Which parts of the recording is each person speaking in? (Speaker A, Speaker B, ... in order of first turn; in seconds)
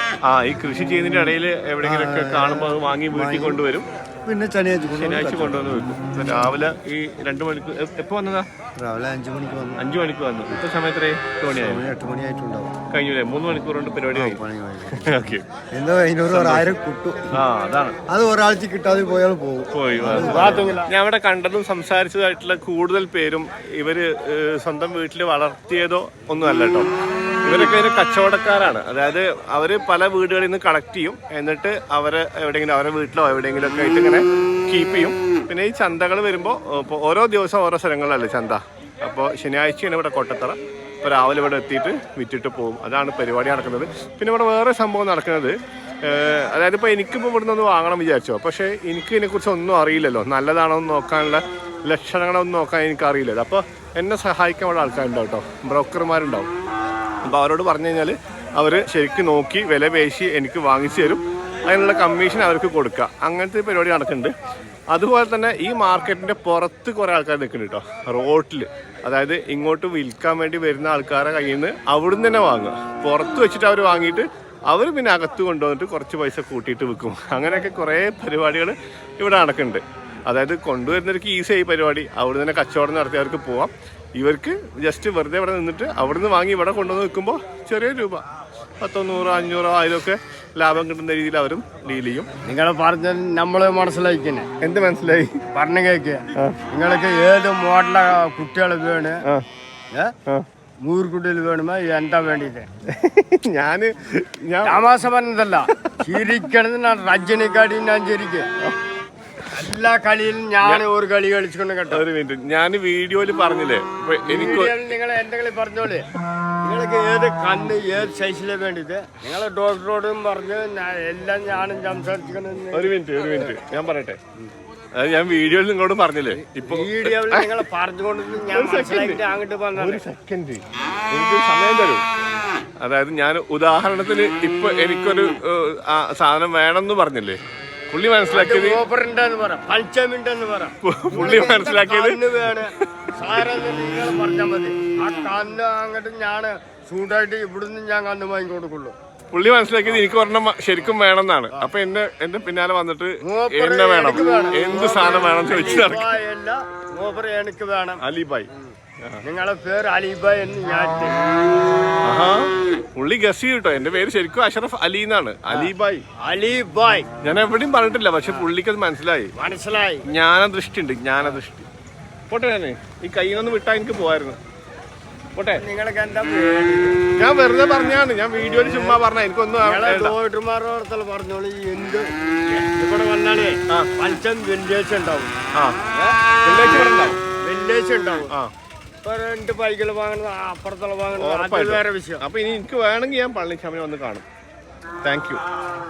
Speaker A: 0.3-3.9, 4.9-8.5, 9.8-11.9, 12.9-15.4, 16.3-16.7, 17.3-18.0, 19.7-26.9, 27.4-56.5, 57.2-64.3, 64.9-88.2, 88.8-92.3, 94.6-95.3, 102.9-104.8, 111.9-114.8, 122.7-124.2, 124.9-127.5, 128.5-129.2, 129.7-132.0, 132.8-137.4, 137.9-138.8, 140.8-143.4, 149.3-156.1, 158.0-158.5, 162.1-166.1, 167.2-169.3, 170.1-171.7, 172.3-174.4, 175.3-175.6, 177.2-180.1, 186.4-187.2, 191.2-194.2, 195.0-195.4
Speaker B: 1.8-3.6, 4.2-5.8, 8.8-9.8, 11.5-12.7, 14.1-17.4, 18.1-20.8
Speaker C: 20.2-20.9, 92.4-94.5, 95.5-99.2, 100.8-102.7, 104.7-108.5, 109.5-112.0, 114.3-116.1, 116.6-122.9, 126.6-130.0, 138.3-148.9, 153.2-161.2, 165.5-167.1, 169.3-170.1, 175.6-177.0, 178.7-179.0, 179.6-185.3, 185.9-186.8, 187.3-188.3, 189.0-192.2